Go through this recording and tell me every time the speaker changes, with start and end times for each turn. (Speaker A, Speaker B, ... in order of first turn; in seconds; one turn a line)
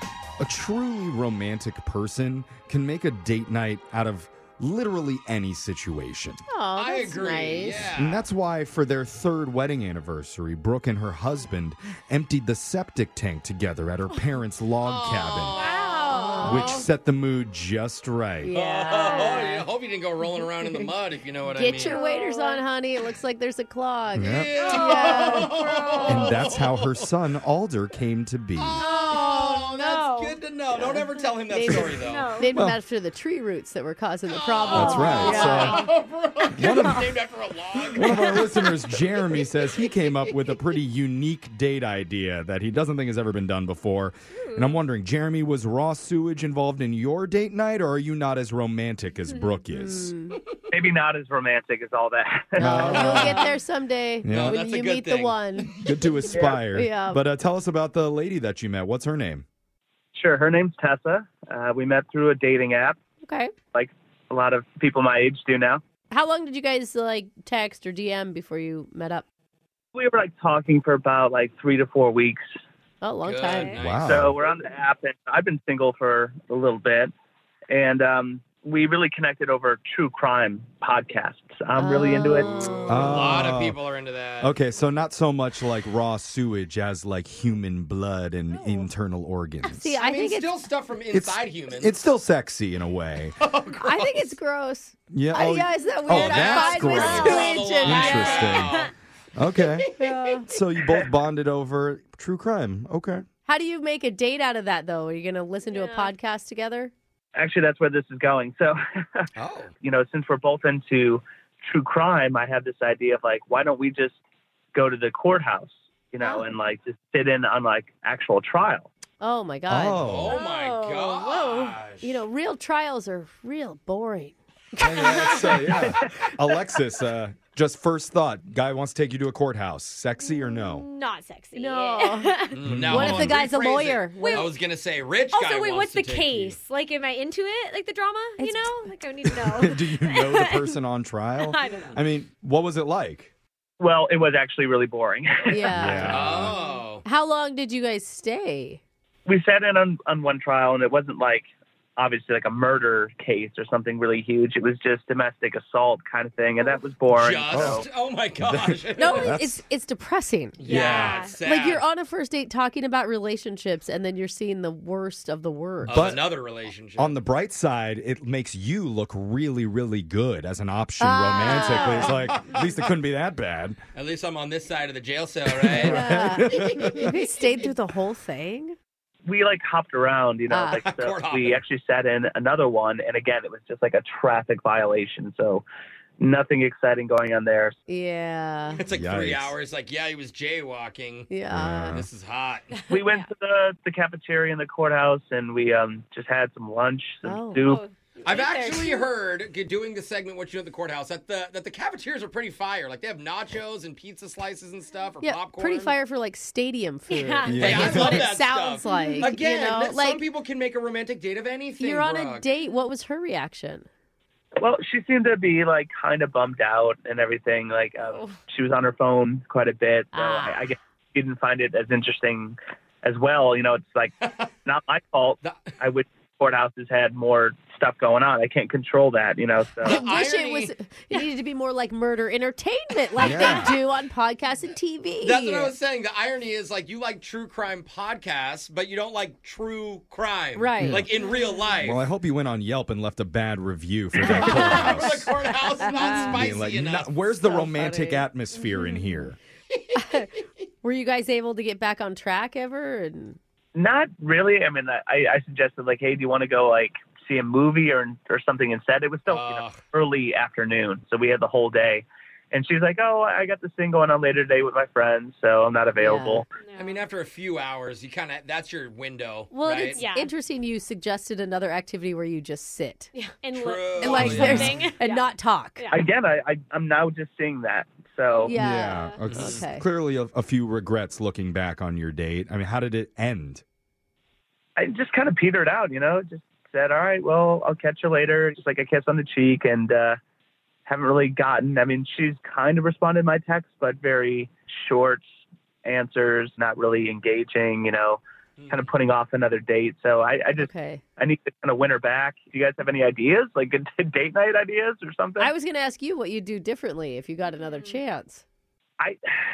Speaker A: 0.4-6.4
Speaker B: 6.5-7.9
Speaker C: 6.8-8.2
Speaker A: 8.0-15.6
Speaker C: 14.8-16.6
Speaker D: 15.6-16.8
Speaker B: 16.1-16.9
Speaker A: 16.4-18.5
Speaker B: 18.4-19.7
Speaker C: 18.5-21.9
Speaker B: 20.2-20.9
Speaker B: 21.5-26.4
Speaker D: 21.8-22.7
Speaker A: 24.1-24.6
Speaker C: 24.2-27.0
Speaker D: 24.6-25.5
Speaker A: 26.1-28.9
Speaker C: 28.6-32.4
Speaker D: 28.8-30.4
Speaker B: 30.8-35.9
Speaker A: 31.7-32.0
Speaker D: 32.0-32.5
Speaker C: 34.3-40.6
Speaker A: 34.7-35.9
Speaker D: 34.7-35.9
Speaker A: 36.6-37.1
Speaker D: 36.6-37.1
Speaker A: 38.0-50.1
Speaker D: 44.4-44.8
Speaker B: 49.7-50.4
Speaker E: 50.7-53.0
Speaker B: 52.6-56.1
Speaker A: 52.6-53.4
Speaker C: 52.9-53.5
Speaker A: 54.2-54.6
Speaker C: 54.3-55.4
Speaker A: 55.8-59.5
Speaker E: 56.3-56.6
Speaker B: 56.7-57.2
Speaker E: 60.1-63.0
Speaker B: 63.2-63.5
Speaker E: 63.7-65.8
Speaker B: 66.1-69.2
Speaker E: 69.9-72.4
Speaker B: 73.0-73.8
Speaker C: 73.2-74.2
Speaker D: 73.5-73.8
Speaker A: 73.8-74.3
Speaker E: 74.0-77.1
Speaker E: 77.7-82.5
Speaker B: 81.8-83.2
Speaker C: 82.4-84.5
Speaker A: 82.9-83.8
Speaker A: 84.4-90.0
Speaker B: 89.8-90.5
Speaker C: 90.0-91.9
Speaker A: 91.1-93.4
Speaker C: 93.4-94.3
Speaker B: 93.8-98.7
Speaker A: 95.1-98.8
Speaker C: 96.2-98.9
Speaker D: 96.8-98.9
Speaker A: 99.4-99.9
Speaker C: 99.8-100.4
Speaker B: 100.0-100.5
Speaker A: 100.4-103.2
Speaker B: 103.5-106.9
Speaker D: 105.7-106.1
Speaker E: 107.4-109.3
Speaker C: 109.4-109.7
Speaker E: 109.8-114.2
Speaker E: 114.7-118.9
Speaker B: 119.2-120.4
Speaker A: 119.7-120.4
Speaker C: 120.0-122.2
Speaker D: 120.3-121.2
Speaker B: 121.0-125.8
Speaker A: 124.8-130.9
Speaker D: 130.2-132.7
Speaker B: 131.5-134.5
Speaker C: 132.5-136.6
Speaker A: 132.6-133.4
Speaker D: 134.2-134.5
Speaker D: 135.3-140.8
Speaker B: 138.4-138.8
Speaker A: 139.3-143.3
Speaker D: 141.4-142.0
Speaker E: 143.8-146.4
Speaker B: 145.5-146.3
Speaker A: 145.7-146.6
Speaker C: 146.1-147.1
Speaker B: 147.0-148.8
Speaker E: 149.3-151.4
Speaker E: 152.0-157.8
Speaker C: 157.1-159.4
Speaker A: 157.5-157.8
Speaker A: 158.4-159.6
Speaker B: 159.0-166.1
Speaker C: 160.6-161.8
Speaker D: 160.6-161.4
Speaker C: 165.8-167.2
Speaker A: 165.9-166.3
Speaker A: 167.0-173.8
Speaker B: 171.0-172.1
Speaker C: 171.7-172.6
Speaker C: 173.9-177.1
Speaker A: 175.5-177.1
Speaker B: 175.8-178.8
Speaker E: 179.3-185.6
Speaker B: 180.5-180.8
Speaker C: 180.8-181.6
Speaker E: 186.2-187.8
Speaker B: 187.9-188.8
Speaker C: 188.8-191.4
Speaker A: 188.9-189.6
Speaker B: 191.3-192.0
Speaker A: 191.5-192.1
Speaker C: 191.9-192.8
Speaker D: 192.7-193.3
Speaker E: 192.9-197.8
Speaker B: 197.2-197.7
Speaker D: 197.6-199.1
Speaker C: 198.2-205.9
Speaker B: 205.2-210.2
Speaker D: 207.1-208.3
Speaker A: 207.5-208.3
Speaker C: 207.6-212.5
Speaker D: 208.8-209.4
Speaker B: 211.8-213.9
Speaker E: 214.6-230.0
Speaker D: 218.1-218.3
Speaker B: 220.1-220.7
Speaker C: 225.4-225.8
Speaker C: 229.8-230.7
Speaker B: 229.8-235.8
Speaker A: 233.2-233.8
Speaker D: 233.2-233.6
Speaker C: 235.2-242.0
Speaker B: 240.6-241.1
Speaker A: 240.8-241.2
Speaker A: 241.8-245.4
Speaker C: 244.2-247.2
Speaker B: 244.3-245.0
Speaker B: 245.8-246.4
Speaker A: 246.2-249.4
Speaker B: 247.4-248.3
Speaker D: 248.7-249.1
Speaker B: 249.9-253.4
Speaker E: 253.8-266.5
Speaker C: 259.3-259.8
Speaker B: 266.0-266.4
Speaker D: 266.6-267.1
Speaker C: 266.7-270.0
Speaker B: 269.5-273.1
Speaker D: 269.9-270.3
Speaker D: 273.1-276.0
Speaker C: 273.5-274.7
Speaker B: 274.0-275.9
Speaker A: 274.2-274.8
Speaker E: 275.9-278.5
Speaker D: 278.3-279.3
Speaker B: 278.4-279.9
Speaker A: 278.5-283.6
Speaker C: 279.3-279.6
Speaker E: 284.8-290.2
Speaker E: 290.9-295.2
Speaker E: 295.9-305.5
Speaker C: 298.6-298.9
Speaker B: 300.6-301.0
Speaker B: 305.4-308.4
Speaker D: 307.5-308.0